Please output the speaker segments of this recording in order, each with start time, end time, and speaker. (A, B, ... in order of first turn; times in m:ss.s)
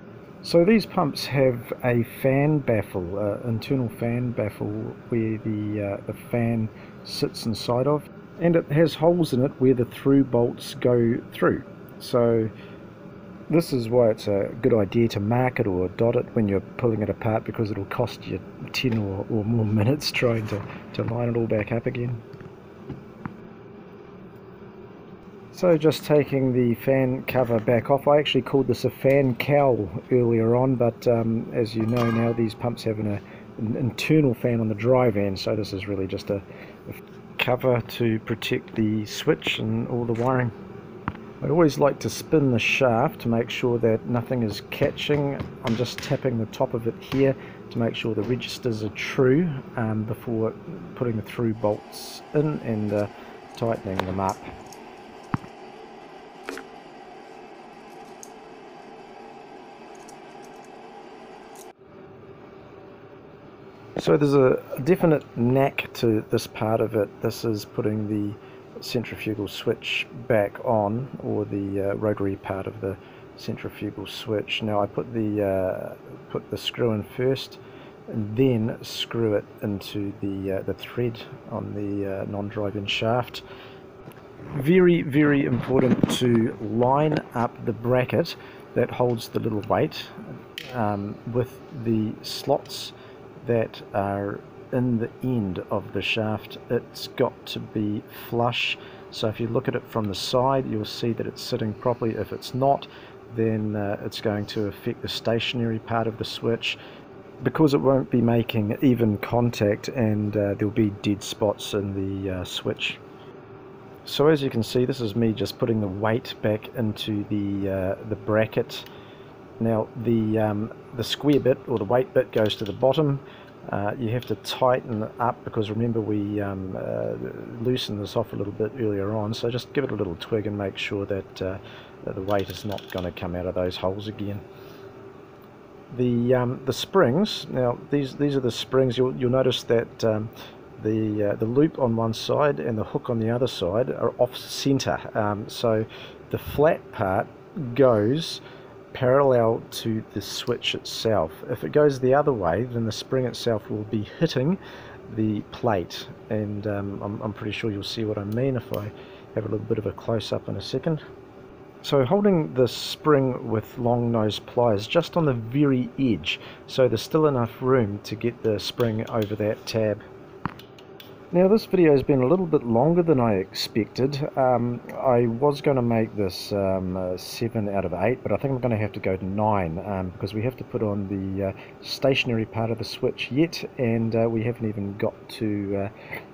0:00.4-0:12.5 A
0:13.5-0:22.2 A
0:25.5-0:40.5 A
0:41.4-0:54.5 A
1:04.0-1:23.4 A
1:24.5-1:46.8 A
1:47.4-1:53.0 A
1:54.0-1:58.9 A
1:59.6-2:14.4 A
2:15.9-2:28.4 A
2:28.9-2:41.0 A
2:41.8-2:50.0 A
2:51.3-3:05.9 A